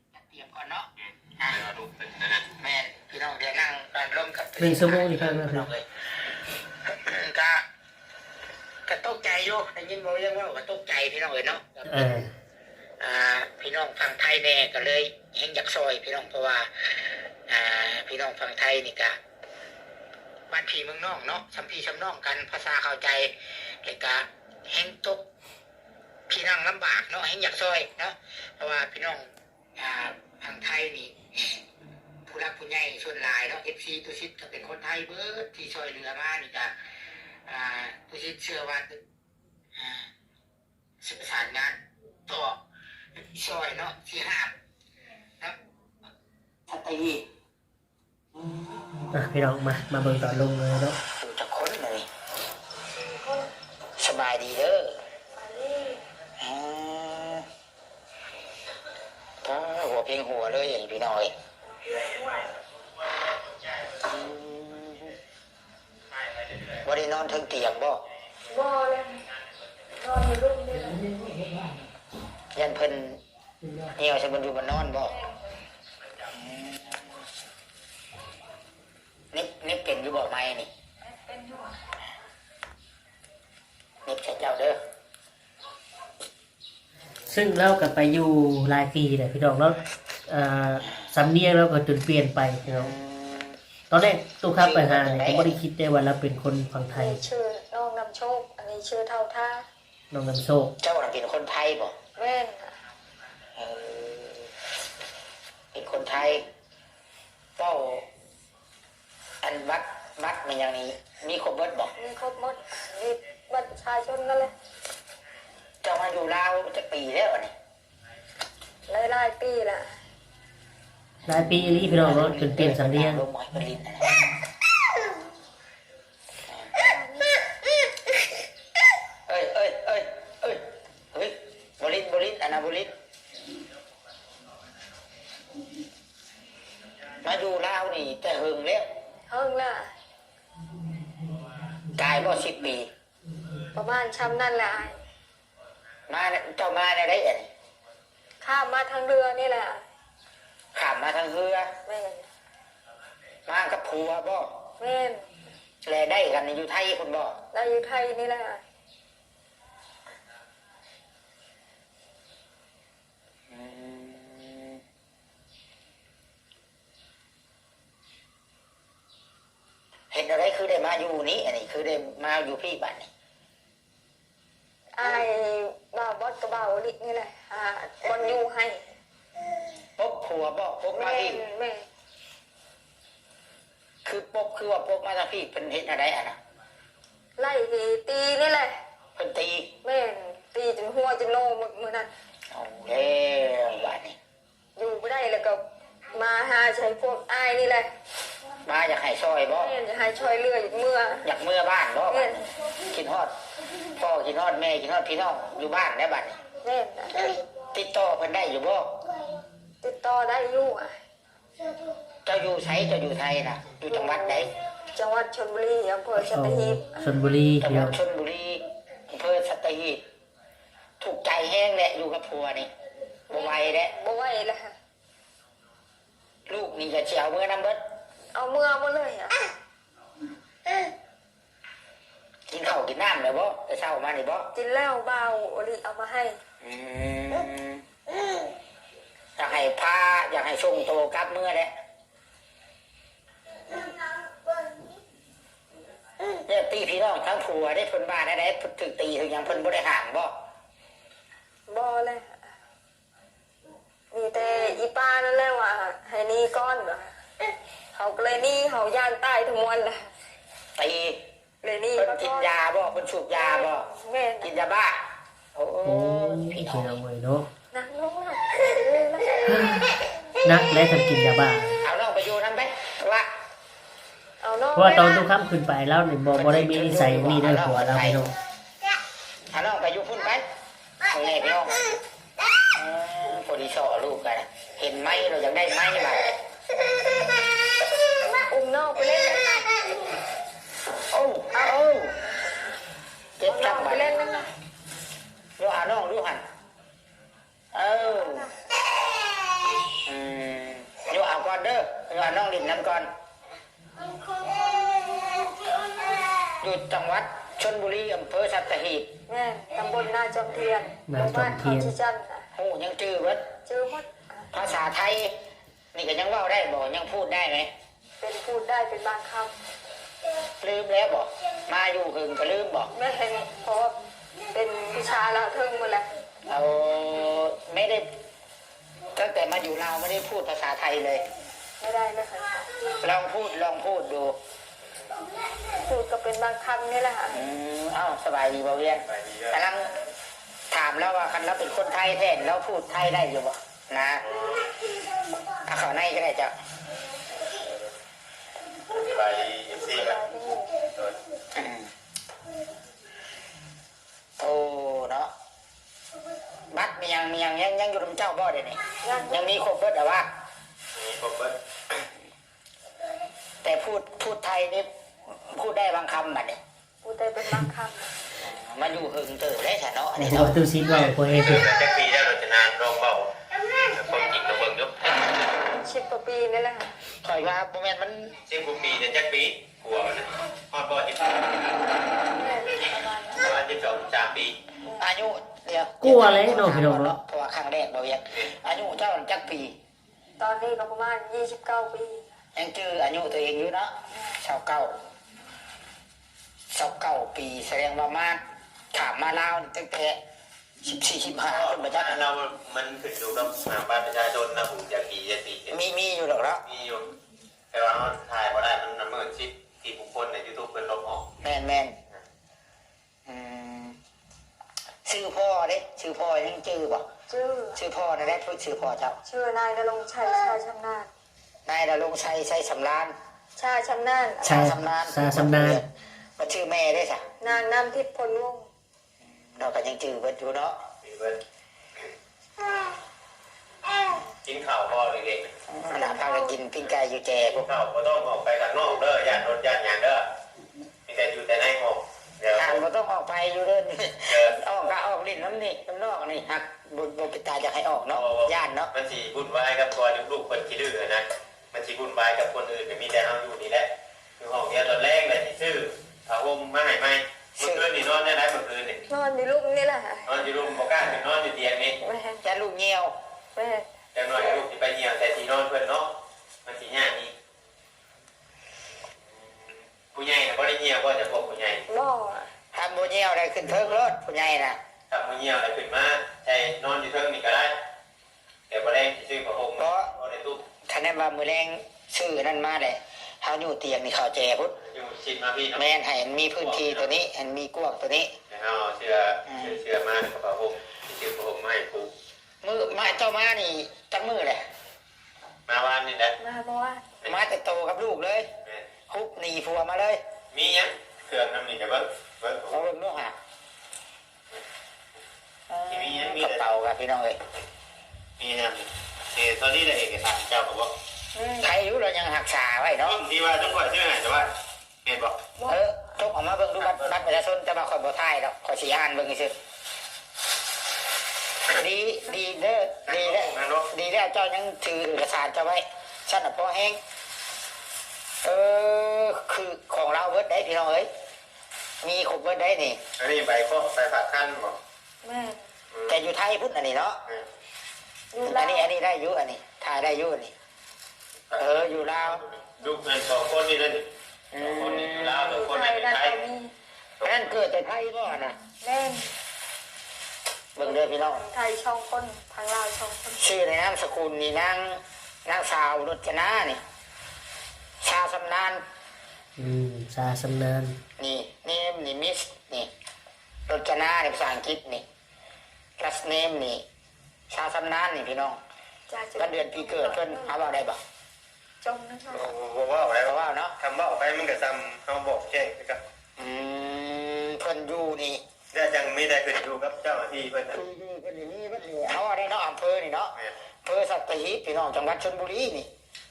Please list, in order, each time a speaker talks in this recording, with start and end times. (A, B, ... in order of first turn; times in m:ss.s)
0:00.2-0:01.7 A
0:01.5-0:02.4 B
0:02.5-0:05.9 A
0:04.6-0:05.7 C
0:06.8-0:07.6 A
0:08.9-0:12.1 A
0:11.9-0:12.3 C
0:13.0-0:16.7 A
0:17.5-0:19.2 A
0:20.5-0:23.3 A
0:23.8-0:25.2 A
0:26.3-0:31.6 A
0:32.3-0:36.7 A
0:37.5-0:39.0 A
0:39.8-0:40.1 A
0:41.0-0:42.6 A
0:43.2-0:44.5 A
0:46.7-0:47.3 A
0:49.1-0:51.0 C
0:51.2-0:52.1 A
0:53.1-0:53.5 D
0:54.0-0:54.9 A
0:55.4-0:56.0 D
0:56.4-0:57.5 A
0:59.4-1:01.3 A
1:01.8-1:02.4 D
1:04.0-1:05.1 A
1:06.8-1:08.0 A
1:08.5-1:09.2 D
1:10.0-1:11.1 D
1:12.6-1:13.2 A
1:13.8-1:15.1 A
1:15.0-1:15.5 D
1:16.3-1:17.1 A
1:19.3-1:20.7 A
1:21.0-1:21.8 D
1:24.1-1:24.8 A
1:27.3-1:32.9 C
1:32.8-1:33.6 A
1:33.9-1:37.3 C
1:34.6-1:35.6 A
1:36.9-1:39.7 D
1:40.1-1:40.8 C
1:40.8-1:42.0 A
1:42.2-1:42.7 D
1:43.6-1:44.5 A
1:45.7-1:46.4 A
1:47.6-1:48.0 A
1:49.4-1:51.9 A
1:52.0-1:54.5 D
1:55.8-1:57.5 A
1:58.9-1:59.9 D
2:01.2-2:03.2 C
2:01.7-2:04.2 A
2:06.8-2:07.4 D
2:09.3-2:10.6 A
2:11.1-2:12.9 A
2:17.2-2:18.9 A
2:19.3-2:19.9 D
2:21.9-2:22.9 A
2:23.7-2:25.0 D
2:26.1-2:27.5 A
2:28.4-2:29.8 D
2:30.7-2:31.7 A
2:31.8-2:32.3 D
2:33.5-2:34.5 A
2:34.8-2:35.2 D
2:35.8-2:37.4 A
2:37.5-2:38.6 D
2:43.5-2:44.8 A
2:50.1-2:53.1 A
2:55.0-2:58.9 D
3:00.0-3:01.4 A
3:00.9-3:01.9 D
3:04.0-3:06.4 A
3:07.4-3:08.8 D
3:09.2-3:09.7 A
3:09.8-3:12.1 D
3:12.5-3:14.2 A
3:14.8-3:15.6 D
3:16.1-3:17.9 D
3:18.6-3:19.7 A
3:19.5-3:21.2 D
3:21.2-3:26.4 A
3:22.1-3:22.4 D
3:26.6-3:27.3 D
3:27.7-3:29.0 A
3:29.8-3:31.0 D
3:32.2-3:34.5 A
3:33.9-3:36.9 D
3:36.2-3:38.0 C
3:37.6-3:40.0 A
3:41.0-3:42.7 A
3:43.3-3:43.9 A
3:43.3-3:44.7 D
3:46.5-3:47.8 A
3:48.3-3:49.5 D
3:52.5-3:54.5 A
3:54.5-3:56.4 D
3:56.6-3:57.8 A
3:59.4-4:01.7 A
4:06.2-4:10.3 A
4:11.7-4:12.4 D
4:14.1-4:17.1 D
4:18.0-4:20.1 D
4:20.8-4:21.2 A
4:21.6-4:22.5 D
4:22.0-4:23.9 A
4:23.3-4:24.5 D
4:24.4-4:25.0 A
4:25.6-4:26.9 A
4:25.8-4:27.5 C
4:27.7-4:29.6 D
4:29.5-4:31.8 C
4:31.8-4:33.3 A
4:34.4-4:35.2 D
4:34.8-4:38.3 C
4:36.3-4:38.3 A
4:39.5-4:40.4 A
4:41.1-4:41.8 A
4:42.7-4:46.4 A
4:48.2-4:49.8 D
4:51.1-4:52.1 A
4:51.5-4:51.8 D
4:53.4-4:54.2 A
4:53.5-4:54.5 D
4:55.6-4:56.4 A
4:57.7-4:58.5 A
4:58.0-4:58.3 D
5:00.0-5:03.1 A
5:04.1-5:06.0 D
5:06.6-5:09.1 A
5:09.3-5:12.5 D
5:11.1-5:11.9 C
5:12.5-5:13.4 A
5:13.6-5:14.5 D
5:14.5-5:15.4 A
5:15.9-5:17.7 A
5:18.2-5:19.5 D
5:20.6-5:22.9 A
5:22.9-5:24.0 D
5:24.5-5:26.1 D
5:26.5-5:28.1 A
5:29.2-5:31.2 A
5:31.8-5:32.7 D
5:33.0-5:34.4 A
5:35.6-5:37.4 D
5:37.3-5:39.9 A
5:39.1-5:39.6 B
5:40.7-5:44.2 A
5:45.5-5:46.5 A
5:48.9-5:50.2 B
5:49.9-5:50.8 D
5:50.8-5:51.2 B
5:51.6-5:51.9 A
5:54.4-5:55.3 A
5:56.7-6:00.3 A
5:59.0-5:59.6 D
6:01.0-6:01.6 B
6:03.6-6:06.6 A
6:07.0-6:08.1 D
6:08.4-6:10.6 A
6:10.2-6:11.7 C
6:10.9-6:13.3 B
6:13.8-6:15.3 B
6:15.6-6:16.9 D
6:17.2-6:18.3 A
6:18.4-6:21.9 B
6:22.3-6:23.5 D
6:23.4-6:24.6 B
6:25.0-6:29.8 A
6:26.0-6:27.2 C
6:30.4-6:32.3 D
6:32.6-6:35.0 A
6:36.7-6:38.4 A
6:38.9-6:40.2 A
6:40.8-6:42.2 A
6:41.5-6:45.8 B
6:45.7-6:46.6 A
6:46.6-6:47.1 B
6:47.7-6:51.3 B
6:51.4-6:52.0 A
6:53.3-6:54.0 A
6:55.0-6:57.1 A
6:57.3-6:57.8 D
6:57.8-6:59.2 A
6:59.2-7:01.1 D
7:01.7-7:03.1 A
7:03.6-7:04.7 D
7:04.4-7:05.8 C
7:04.4-7:05.9 A
7:06.4-7:07.2 A
7:07.4-7:08.7 D
7:09.6-7:10.8 A
7:11.0-7:11.4 B
7:14.4-7:15.5 B
7:15.7-7:17.6 A
7:15.9-7:16.6 D
7:17.5-7:20.2 B
7:21.1-7:22.8 B
7:22.6-7:28.9 A
7:24.3-7:24.7 B
7:28.1-7:39.0 B
7:37.6-7:37.9 A
7:39.1-7:40.3 D
7:40.3-7:42.0 B
7:42.0-7:42.4 D
7:42.4-7:43.1 A
7:43.6-7:43.9 D
7:44.1-7:47.3 B
7:50.1-7:51.8 B
7:51.9-7:52.5 D
7:52.7-7:54.8 A
7:55.1-7:57.8 B
7:58.7-8:00.6 B
7:59.8-8:00.1 A
8:00.9-8:04.8 A
8:04.8-8:05.9 B
8:05.8-8:08.3 A
8:06.6-8:07.1 B
8:08.5-8:12.1 B
8:09.5-8:09.8 A
8:12.6-8:14.6 A
8:15.7-8:16.4 B
8:16.4-8:17.0 D
8:17.2-8:18.5 A
8:19.1-8:20.2 A
8:20.5-8:22.8 B
8:22.7-8:23.4 A
8:25.7-8:27.4 A
8:25.9-8:26.8 B
8:28.4-8:30.9 B
8:31.4-8:31.7 D
8:31.6-8:33.2 A
8:33.0-8:34.5 B
8:35.0-8:35.4 B
8:35.7-8:39.5 A
8:36.8-8:37.2 B
8:41.7-8:47.0 A
8:43.1-8:43.9 B
8:48.4-8:51.1 A
8:52.0-8:53.0 A
8:53.2-8:54.8 B
8:55.2-8:55.6 D
8:55.9-8:56.2 B
8:56.1-8:57.2 A
8:58.3-8:58.9 D
8:58.4-9:00.5 A
9:01.5-9:06.4 B
9:01.6-9:02.4 A
9:04.5-9:05.4 A
9:05.4-9:06.7 D
9:07.2-9:07.5 B
9:07.2-9:08.6 A
9:08.7-9:09.3 D
9:10.8-9:11.4 A
9:10.8-9:13.5 D
9:13.4-9:16.8 A
9:18.0-9:18.8 A
9:19.6-9:21.0 C
9:21.2-9:22.9 A
9:23.7-9:25.0 A
9:26.0-9:26.8 A
9:27.5-9:28.6 A
9:29.1-9:30.6 D
9:29.4-9:31.0 A
9:31.8-9:32.5 D
9:32.3-9:36.0 B
9:33.3-9:33.8 A
9:36.4-9:38.4 A
9:38.7-9:40.8 B
9:40.7-9:43.3 A
9:43.8-9:45.9 A